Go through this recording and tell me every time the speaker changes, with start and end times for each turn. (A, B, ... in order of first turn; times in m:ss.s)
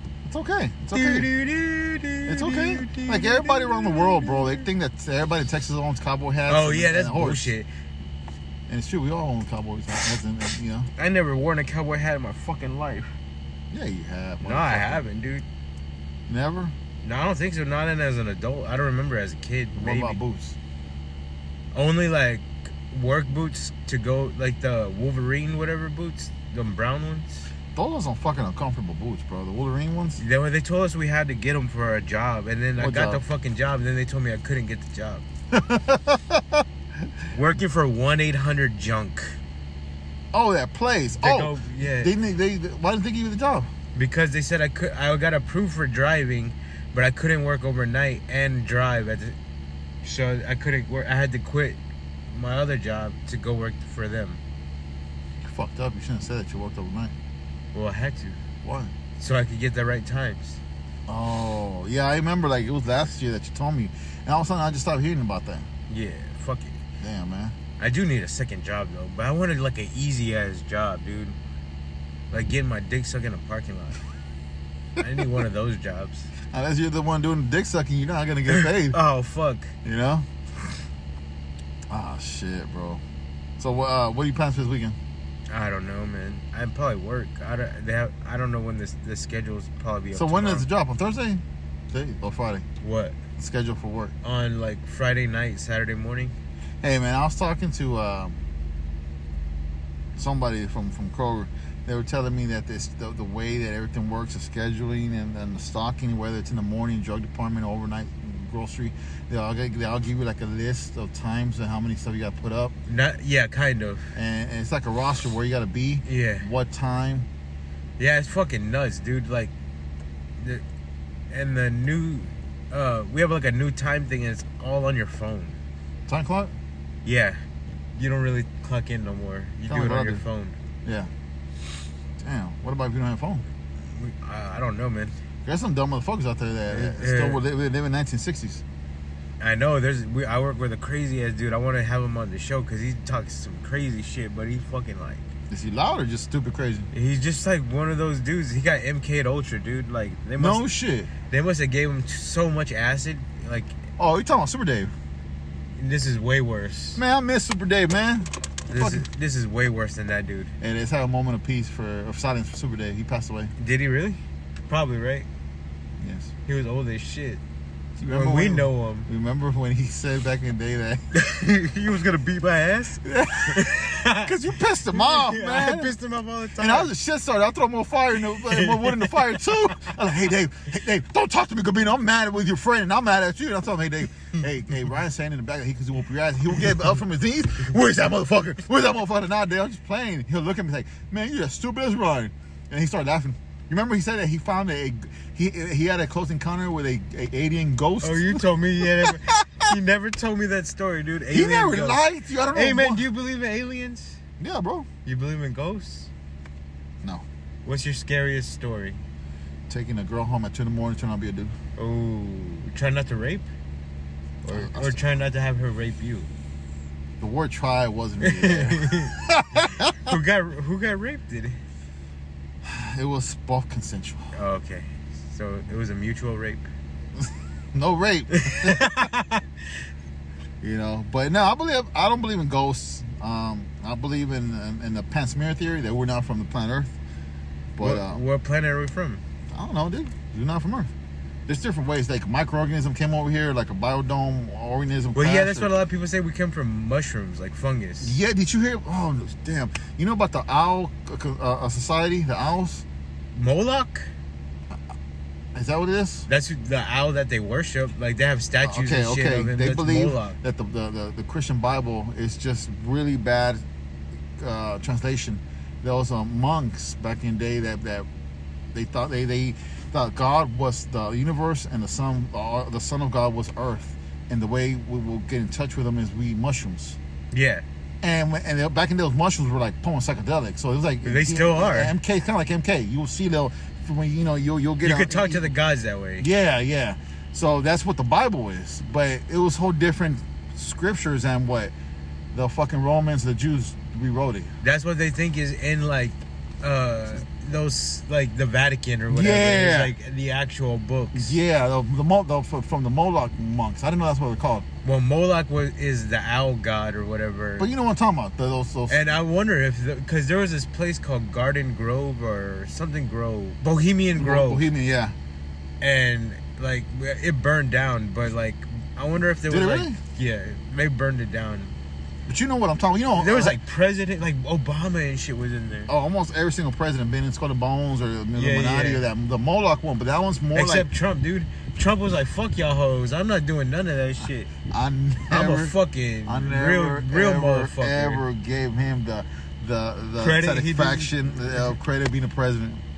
0:00.2-0:01.3 A
0:00.9-0:04.6 B
0:02.3-0:07.5 A
0:06.5-0:07.7 B
0:08.7-0:10.9 A
0:11.0-0:13.1 B
0:13.7-0:15.0 A
0:14.4-0:15.4 B
0:16.3-0:16.7 A
0:17.0-0:20.2 B
0:19.8-0:20.6 A
0:21.7-0:27.5 B
0:27.7-0:30.2 A
0:30.2-0:35.2 B
0:32.8-0:33.2 A
0:35.5-0:36.6 A
0:37.3-0:39.4 B
0:40.3-0:43.7 A
0:41.2-0:42.1 B
0:43.9-0:49.4 B
0:50.0-0:51.8 B
0:52.3-0:54.4 B
0:55.4-0:57.1 A
0:57.7-0:58.4 B
0:58.6-0:58.9 A
0:59.2-1:00.6 B
1:01.1-1:05.7 A
1:05.9-1:06.8 B
1:07.0-1:07.6 A
1:07.8-1:11.4 B
1:12.3-1:14.0 B
1:15.0-1:16.3 B
1:16.5-1:19.0 A
1:18.5-1:19.7 B
1:19.8-1:20.2 A
1:21.9-1:23.0 A
1:23.6-1:25.0 A
1:25.5-1:30.7 B
1:30.1-1:32.6 A
1:32.8-1:33.2 B
1:33.4-1:34.1 A
1:34.2-1:36.3 B
1:36.8-1:38.4 A
1:40.2-1:52.7 A
1:52.9-1:54.1 B
1:54.1-1:57.3 A
1:56.0-1:56.5 B
1:58.0-1:59.5 B
2:00.4-2:00.6 B
2:01.3-2:05.6 B
2:06.1-2:06.5 A
2:07.0-2:07.4 B
2:07.9-2:10.6 B
2:09.7-2:10.2 A
2:10.8-2:11.1 A
2:12.2-2:13.4 A
2:13.9-2:15.1 B
2:15.4-2:18.6 A
2:16.7-2:17.4 B
2:19.4-2:25.3 B
2:25.5-2:26.9 A
2:26.9-2:30.6 B
2:30.4-2:31.1 A
2:31.3-2:33.7 B
2:34.0-2:34.9 A
2:35.8-2:37.0 B
2:37.0-2:39.0 A
2:38.7-2:40.5 B
2:40.6-2:43.5 A
2:43.6-2:45.3 B
2:46.0-2:46.3 A
2:46.4-2:47.4 B
2:48.0-2:51.0 A
2:48.1-2:49.1 B
2:51.1-2:54.3 B
2:53.0-2:55.9 A
2:54.9-2:56.9 B
2:56.6-3:19.7 A
2:58.3-2:59.4 B
3:18.0-3:24.2 B
3:21.3-3:23.0 A
3:24.4-3:24.9 A
3:25.0-3:26.1 B
3:27.6-3:29.0 B
3:29.7-3:31.5 A
3:31.8-3:33.5 B
3:34.4-3:36.3 B
3:34.4-3:35.0 A
3:37.2-3:40.1 A
3:38.2-3:41.6 B
3:42.6-3:44.3 A
3:44.3-3:46.7 B
3:47.2-3:49.1 A
3:48.3-3:49.4 B
3:50.6-3:57.0 A
3:57.8-3:58.2 A
3:57.8-3:59.2 B
3:59.5-4:00.9 A
4:01.5-4:05.8 A
4:05.1-4:08.2 B
4:08.0-4:12.8 A
4:13.3-4:14.1 B
4:15.5-4:16.3 A
4:16.3-4:20.4 B
4:18.6-4:23.6 A
4:24.4-4:28.1 A
4:28.7-4:37.0 A
4:37.3-4:37.6 B
4:38.0-4:45.5 A
4:41.0-4:41.9 B
4:44.8-4:46.3 B
4:46.2-4:51.7 A
4:52.3-4:54.5 A
4:54.6-5:01.3 B
4:59.1-4:59.9 A
5:01.1-5:04.6 A
5:04.8-5:07.7 B
5:07.6-5:09.1 A
5:08.9-5:14.7 B
5:14.2-5:15.2 A
5:15.8-5:21.7 B
5:19.4-5:20.0 A
5:22.3-5:23.6 A
5:23.2-5:25.9 B
5:25.9-5:30.9 A
5:28.3-5:29.0 B
5:30.5-5:34.5 B
5:34.5-5:42.8 A
5:35.3-5:38.2 B
5:40.2-5:41.1 B